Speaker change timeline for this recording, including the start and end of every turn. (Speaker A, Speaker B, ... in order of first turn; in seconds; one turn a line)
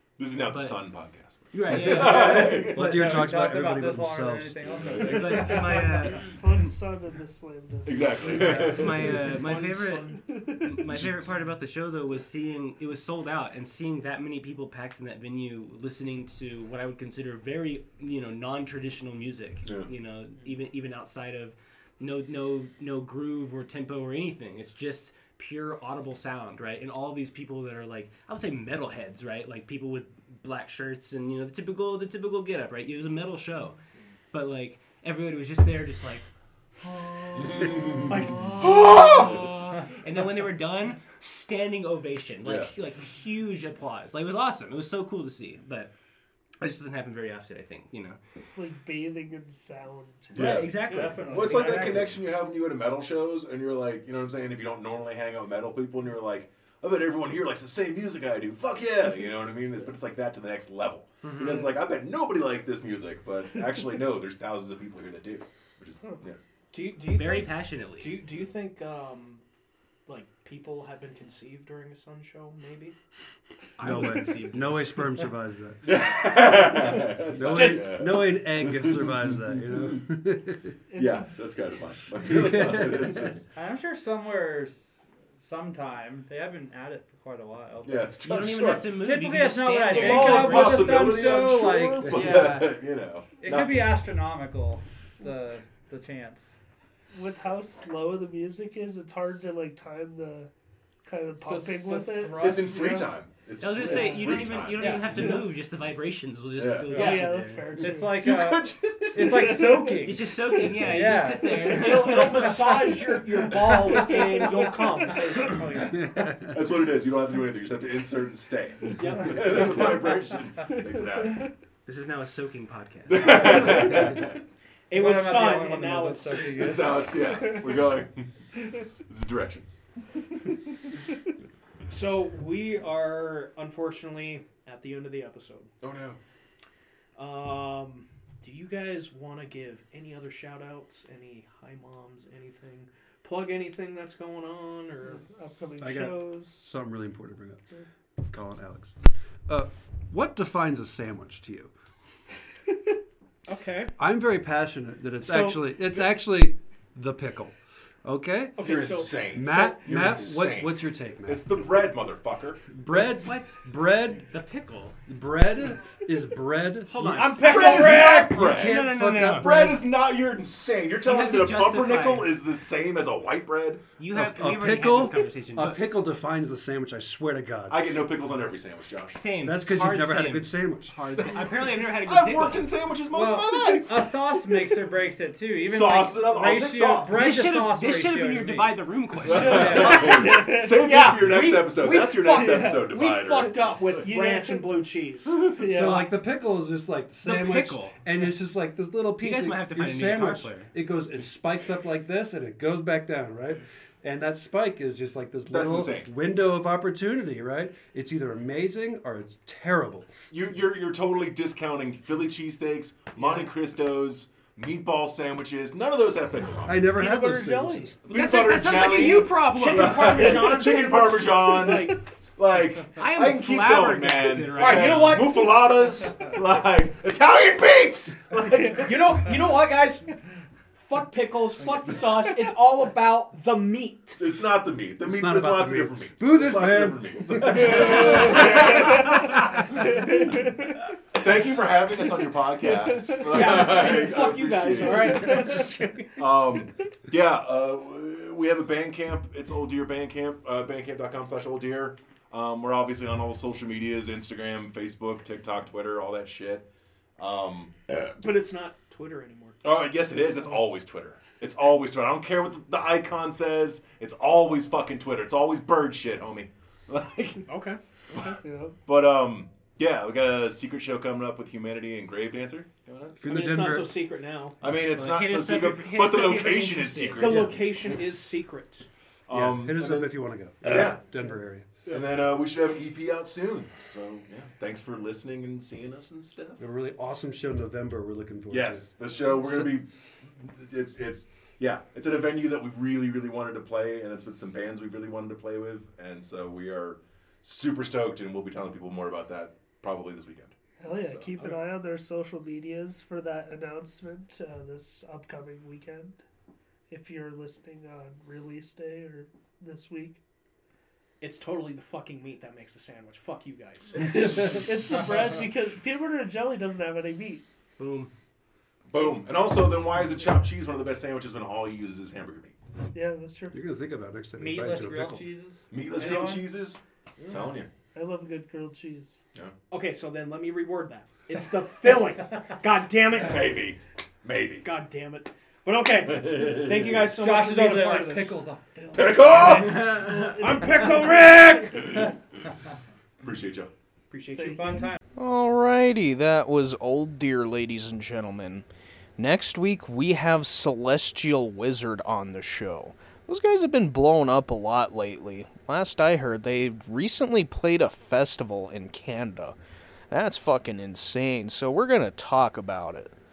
Speaker A: 0.2-3.2
Speaker B: 0.3-0.8
Speaker B: 1.5-2.7
Speaker C: 1.7-4.6
Speaker D: 2.6-5.8
Speaker A: 4.8-5.9
Speaker B: 5.0-6.3
Speaker E: 5.5-8.4
Speaker A: 7.8-9.2
Speaker B: 8.4-33.8
Speaker F: 8.4-10.2
Speaker E: 10.2-10.8
Speaker A: 10.9-11.2
Speaker A: 19.6-19.9
Speaker B: 34.3-36.3
Speaker B: 36.8-45.9
Speaker A: 37.5-38.1
Speaker F: 37.8-39.8
Speaker A: 42.4-42.7
Speaker B: 46.6-48.2
Speaker E: 48.4-50.3
Speaker A: 50.3-66.4
Speaker B: 50.3-52.1
Speaker D: 50.9-52.1
Speaker B: 61.2-61.7
Speaker F: 66.7-69.4
Speaker B: 67.1-68.2
Speaker F: 70.1-73.0
Speaker B: 73.8-75.3
Speaker F: 73.8-74.5
Speaker C: 73.8-75.9
Speaker A: 75.8-80.0
Speaker C: 77.3-80.7
Speaker F: 77.4-78.0
Speaker E: 80.9-81.2
Speaker A: 81.0-83.5
Speaker C: 82.2-83.4
Speaker D: 83.5-88.1
Speaker A: 87.8-88.9
Speaker B: 88.2-91.1
Speaker D: 89.0-92.1
Speaker A: 89.9-93.8
Speaker F: 92.1-92.8
Speaker D: 93.4-96.5
Speaker E: 97.1-100.5
Speaker E: 101.0-103.1
Speaker F: 101.4-103.1
Speaker A: 102.3-105.3
Speaker B: 103.6-107.9
Speaker F: 103.8-105.6
Speaker A: 106.5-107.0
Speaker D: 106.9-111.8
Speaker F: 107.0-107.3
Speaker E: 107.0-108.3
Speaker A: 108.1-109.7
Speaker E: 109.7-110.0
Speaker B: 110.0-112.9
Speaker F: 111.7-116.0
Speaker A: 115.8-121.5
Speaker C: 116.1-116.5
Speaker F: 118.9-120.1
Speaker B: 121.8-124.1
Speaker A: 123.1-124.4
Speaker F: 124.9-127.0
Speaker D: 124.9-127.1
Speaker A: 126.5-128.3
Speaker A: 129.1-129.8
Speaker F: 131.9-135.7
Speaker A: 135.8-136.2
Speaker F: 137.2-145.2
Speaker E: 145.1-146.8
Speaker C: 145.8-147.6
Speaker C: 148.2-151.7
Speaker F: 153.4-153.9
Speaker C: 154.0-158.6
Speaker F: 155.2-155.6
Speaker F: 158.6-159.2
Speaker A: 158.6-162.6
Speaker C: 159.3-161.6
Speaker C: 162.7-164.3
Speaker B: 162.9-163.7
Speaker B: 164.3-165.0
Speaker C: 165.1-167.5
Speaker B: 166.9-169.8
Speaker F: 167.0-168.4
Speaker A: 167.4-173.8
Speaker C: 168.3-169.8
Speaker B: 171.0-172.4
Speaker B: 174.0-175.8
Speaker C: 174.1-177.9
Speaker A: 177.7-179.2
Speaker B: 179.1-182.7
Speaker C: 179.4-181.0
Speaker A: 181.9-184.1
Speaker D: 183.1-188.8
Speaker A: 185.7-187.2
Speaker B: 187.1-190.1
Speaker A: 189.2-193.6
Speaker D: 189.4-190.1
Speaker F: 189.5-195.5
Speaker E: 189.7-190.8
Speaker E: 192.3-192.9
Speaker E: 194.0-194.9
Speaker E: 195.5-196.0
Speaker C: 195.6-210.1
Speaker B: 197.2-197.9
Speaker B: 199.2-200.7
Speaker A: 205.5-206.1
Speaker A: 210.3-217.0
Speaker F: 213.2-213.5
Speaker C: 216.7-217.9
Speaker E: 216.9-218.0
Speaker A: 218.0-229.3
Speaker B: 218.1-220.5
Speaker F: 219.3-222.0
Speaker B: 222.9-225.4
Speaker F: 224.5-225.9
Speaker F: 228.8-230.1
Speaker F: 230.7-234.2
Speaker A: 234.2-240.3
Speaker C: 235.0-238.1
Speaker B: 237.7-239.3
Speaker E: 238.9-239.3
Speaker E: 239.8-240.7
Speaker A: 241.1-256.6
Speaker F: 243.1-246.4
Speaker E: 243.4-243.9
Speaker E: 245.0-245.6
Speaker A: 257.2-258.1
Speaker F: 258.2-259.7
Speaker A: 259.6-267.5
Speaker F: 267.5-268.4
Speaker E: 268.4-268.8
Speaker A: 268.9-273.3
Speaker C: 273.2-273.9
Speaker F: 273.2-274.6
Speaker A: 274.6-277.6
Speaker B: 274.9-277.4
Speaker F: 277.2-278.9
Speaker A: 279.3-281.0
Speaker C: 279.3-281.8
Speaker A: 281.8-286.6
Speaker C: 286.6-289.8
Speaker A: 288.5-300.5
Speaker E: 300.8-306.2
Speaker E: 306.9-310.2
Speaker F: 311.2-314.9
Speaker E: 314.0-317.4
Speaker B: 317.8-318.1
Speaker A: 318.9-322.5
Speaker E: 322.9-323.6
Speaker C: 323.5-325.2
Speaker D: 324.4-326.5
Speaker A: 325.7-327.7
Speaker E: 327.9-329.2
Speaker F: 329.7-333.6
Speaker A: 333.2-334.7
Speaker F: 334.6-338.4
Speaker A: 336.1-337.0
Speaker D: 337.1-340.1
Speaker A: 338.9-340.0
Speaker F: 339.4-341.8
Speaker A: 341.7-342.1
Speaker A: 343.2-343.7
Speaker F: 344.1-344.9
Speaker D: 344.4-345.0
Speaker E: 344.4-344.8
Speaker G: 345.2-348.6
Speaker G: 349.2-359.6
Speaker G: 360.1-363.1